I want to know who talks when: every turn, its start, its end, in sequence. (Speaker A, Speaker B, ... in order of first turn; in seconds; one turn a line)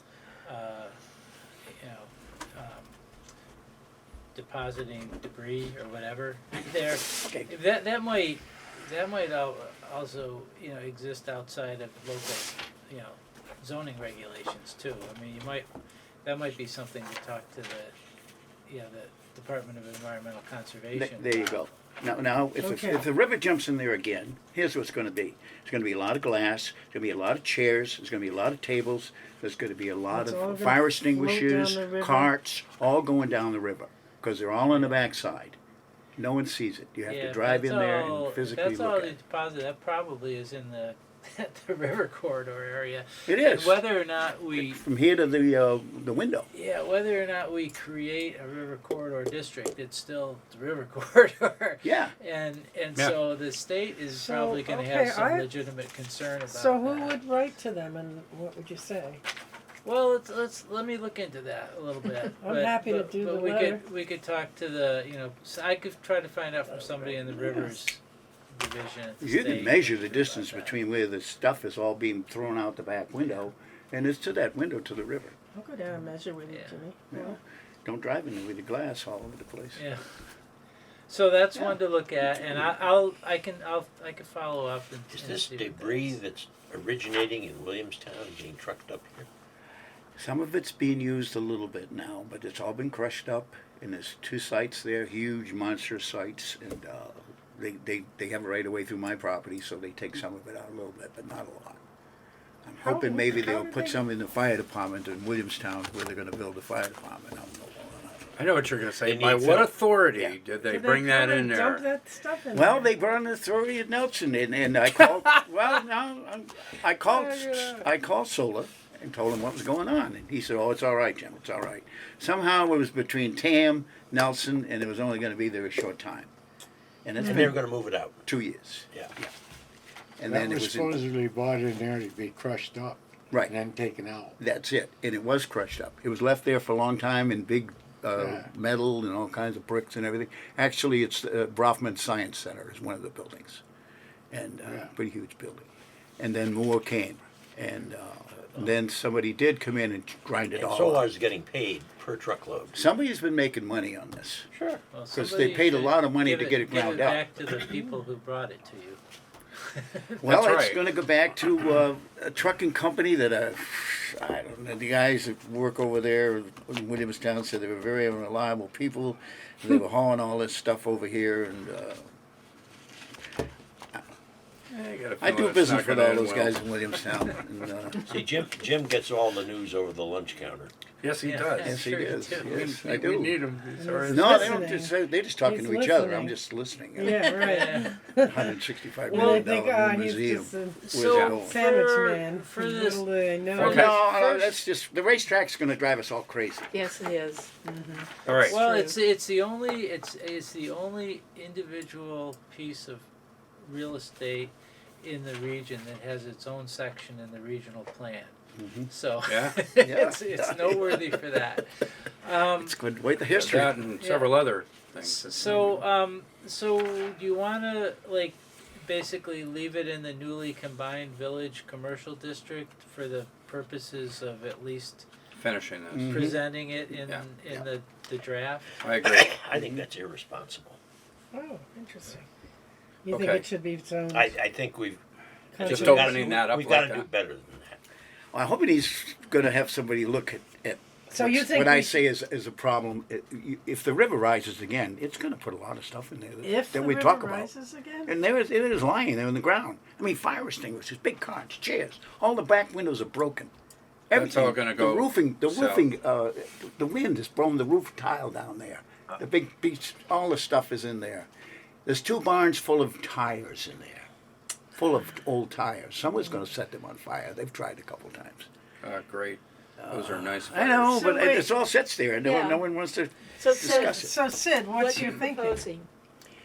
Speaker A: 0.4-0.9
Speaker A: 1.8-2.9
Speaker A: 4.3-15.7
Speaker B: 7.2-7.5
Speaker A: 16.2-17.9
Speaker A: 18.6-21.7
Speaker B: 20.9-35.6
Speaker C: 22.6-23.0
Speaker C: 30.1-32.3
Speaker A: 34.7-35.0
Speaker B: 36.1-39.1
Speaker A: 37.0-44.8
Speaker B: 43.3-43.8
Speaker B: 44.6-46.5
Speaker A: 46.5-57.2
Speaker B: 51.8-52.1
Speaker C: 54.1-55.5
Speaker C: 56.5-59.2
Speaker A: 59.8-68.0
Speaker C: 62.4-63.8
Speaker A: 68.5-70.8
Speaker B: 69.2-75.3
Speaker C: 75.5-77.3
Speaker A: 76.5-76.8
Speaker B: 77.1-79.8
Speaker A: 79.8-80.0
Speaker A: 81.1-86.2
Speaker B: 81.5-82.7
Speaker D: 85.1-89.3
Speaker B: 90.2-101.8
Speaker B: 102.6-108.4
Speaker C: 102.8-104.0
Speaker E: 108.4-111.9
Speaker D: 109.0-109.7
Speaker C: 110.6-112.9
Speaker B: 112.5-126.3
Speaker C: 117.0-117.8
Speaker B: 127.0-129.3
Speaker D: 127.2-128.2
Speaker B: 130.2-131.0
Speaker F: 130.2-134.3
Speaker B: 134.4-143.6
Speaker F: 138.1-138.5
Speaker B: 144.3-151.1
Speaker F: 144.6-144.9
Speaker D: 150.5-152.8
Speaker B: 152.7-154.5
Speaker A: 154.9-159.0
Speaker B: 155.1-157.3
Speaker A: 159.8-160.1
Speaker E: 160.2-160.8
Speaker B: 160.2-172.0
Speaker E: 174.7-176.7
Speaker B: 175.2-178.2
Speaker D: 178.1-180.7
Speaker E: 181.0-181.8
Speaker A: 181.2-182.7
Speaker B: 181.6-183.4
Speaker E: 182.3-184.6
Speaker C: 183.7-186.3
Speaker B: 184.1-187.4
Speaker C: 186.9-194.0
Speaker A: 187.2-187.9
Speaker B: 188.2-191.6
Speaker A: 189.1-189.5
Speaker A: 190.8-194.3
Speaker E: 191.0-191.3
Speaker E: 193.5-194.2
Speaker B: 193.6-196.8
Speaker G: 196.7-197.5
Speaker C: 197.6-198.9
Speaker E: 198.2-198.6
Speaker A: 198.4-203.1
Speaker A: 203.6-208.3
Speaker B: 208.6-208.9
Speaker A: 208.9-212.8
Speaker E: 209.3-209.6
Speaker B: 209.8-211.2
Speaker B: 212.6-213.8
Speaker E: 213.3-215.8
Speaker A: 214.0-214.4
Speaker A: 215.0-225.1
Speaker E: 225.4-226.4
Speaker B: 225.9-226.4
Speaker A: 226.1-228.8
Speaker E: 228.8-229.3
Speaker D: 229.0-230.8
Speaker B: 229.5-229.8
Speaker C: 231.3-232.2
Speaker C: 233.0-234.4
Speaker E: 233.1-233.5
Speaker D: 234.1-235.0
Speaker C: 235.5-236.5
Speaker D: 235.6-237.8
Speaker E: 235.6-237.1
Speaker B: 238.3-247.5
Speaker C: 241.1-242.0
Speaker C: 246.4-248.1
Speaker B: 248.1-253.5
Speaker B: 254.1-261.3
Speaker E: 254.1-255.9
Speaker B: 261.9-264.1
Speaker B: 264.7-268.5
Speaker E: 268.8-271.2
Speaker B: 269.8-274.2
Speaker G: 272.2-272.7
Speaker G: 273.4-274.1
Speaker C: 273.6-275.7
Speaker G: 274.6-275.9